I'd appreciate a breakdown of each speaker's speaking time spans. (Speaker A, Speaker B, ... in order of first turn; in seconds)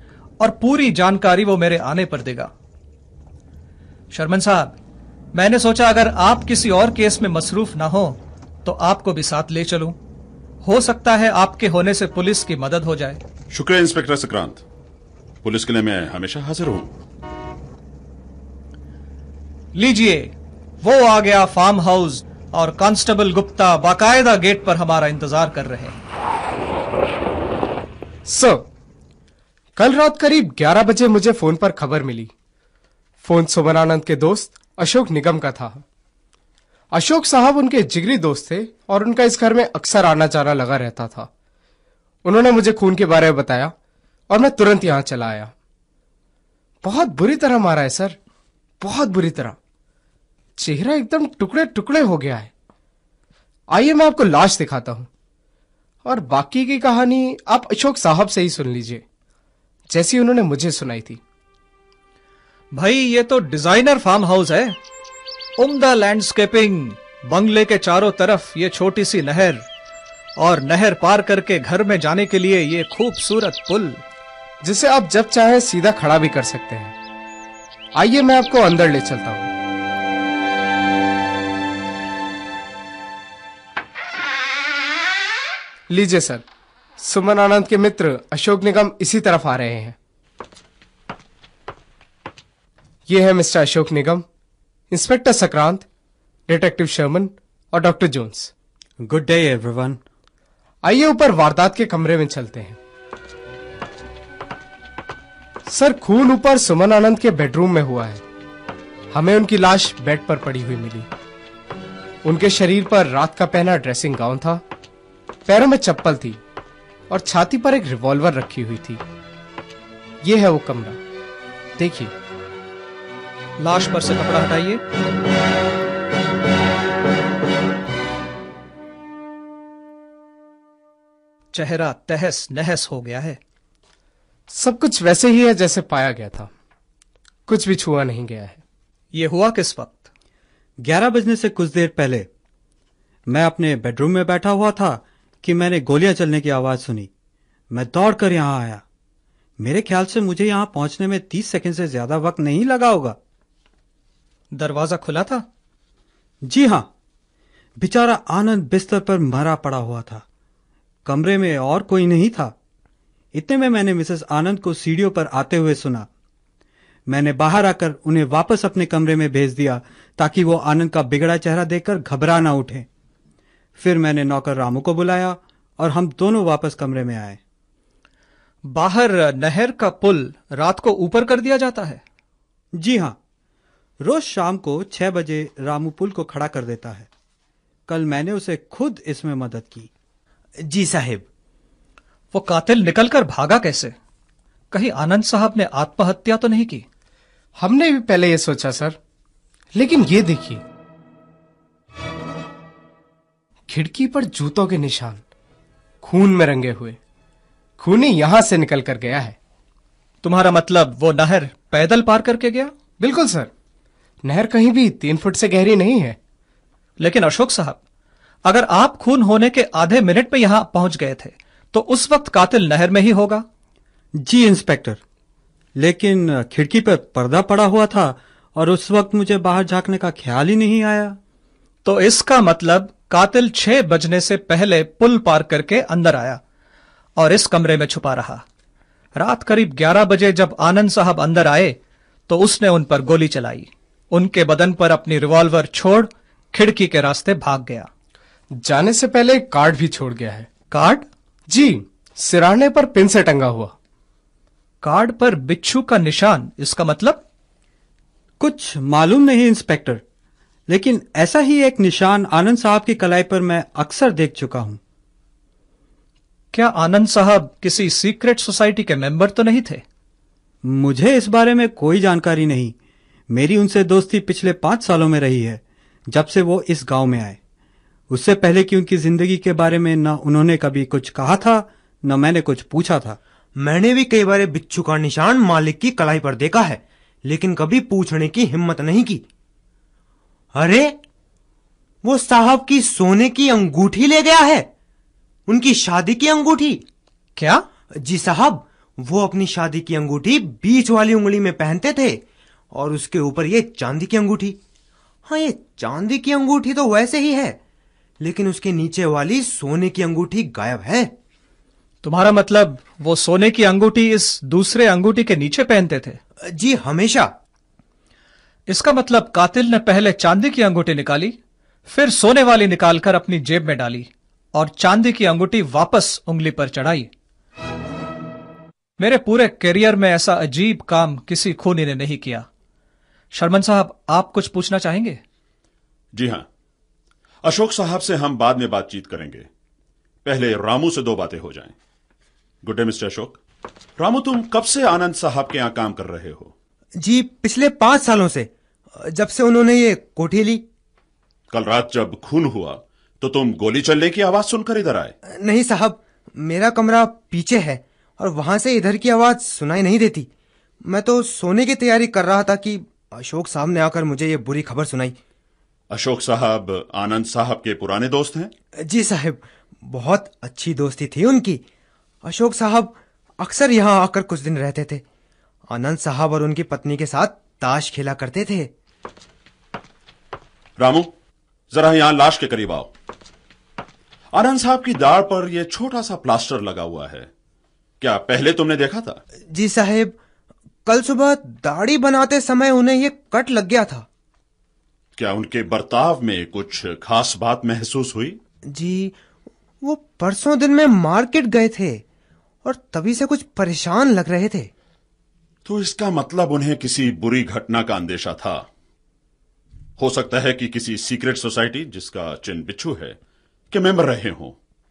Speaker A: 0.4-2.5, 4.1-4.8, 5.3-10.0, 10.6-13.2, 19.8-26.0, 62.7-64.8, 65.6-69.7, 70.4-74.0, 123.6-124.8, 131.5-133.4, 139.1-140.1, 154.5-155.4, 178.7-182.0, 192.3-193.9, 194.7-196.8, 210.2-212.7, 217.0-217.8, 218.4-223.4, 231.8-236.4, 237.2-238.4, 239.2-241.8, 242.3-247.9, 250.7-251.1, 254.8-257.2, 266.5-269.8, 297.4-297.6, 312.0-316.2, 318.7-327.1, 329.0-332.5, 333.3-335.2
Speaker B: 13.5-14.6, 15.4-16.9, 336.1-336.5, 337.4-339.5, 340.2-341.8, 342.6-343.4, 344.0-346.5, 351.5-355.2, 365.9-368.5, 380.8-381.1, 381.7-382.9, 384.3-387.3, 388.0-389.2, 395.2-398.4, 405.6-408.7, 410.0-413.2, 413.7-414.6
Speaker C: 28.3-28.7, 29.8-32.3, 33.2-35.8, 36.9-41.3, 42.2-43.7, 44.3-45.5, 46.8-48.2, 48.8-49.6, 50.6-52.5, 53.7-55.1, 56.0-59.0, 59.9-61.2, 74.6-77.0, 78.0-79.5, 85.9-86.5, 87.0-90.0, 93.1-94.2, 94.9-95.9, 96.5-98.5, 100.8-102.8, 105.7-108.2, 109.1-111.1, 112.2-114.6, 115.5-116.4, 117.1-119.0, 120.2-121.0, 121.8-122.1, 134.5-136.5, 137.5-138.6, 197.6-199.0, 199.8-200.6, 203.7-205.2, 206.0-207.0, 207.8-209.4, 213.0-213.5, 214.2-216.2, 248.5-250.5, 251.5-253.7
Speaker D: 99.0-100.0, 140.8-142.3, 143.3-147.1, 147.7-148.8, 149.6-153.2, 156.4-156.9, 157.8-160.2, 161.1-162.6, 163.3-166.1, 167.1-172.9, 173.8-177.4, 182.8-183.2, 184.0-187.1, 187.9-189.9, 224.2-225.0, 225.8-231.2, 258.4-260.0, 260.7-264.8, 270.6-272.8, 273.3-277.4, 278.1-283.2
Speaker E: 190.6-191.2, 283.6-289.2, 290.5-291.0, 292.0-294.7, 295.5-296.8, 298.0-304.6, 305.2-307.6, 308.2-311.1, 316.4-317.3, 347.0-350.6, 355.4-360.3, 360.9-365.2, 368.8-371.6, 372.2-375.0, 375.7-378.7, 389.5-390.2, 390.9-394.1, 398.7-399.2, 399.8-402.0, 402.6-404.7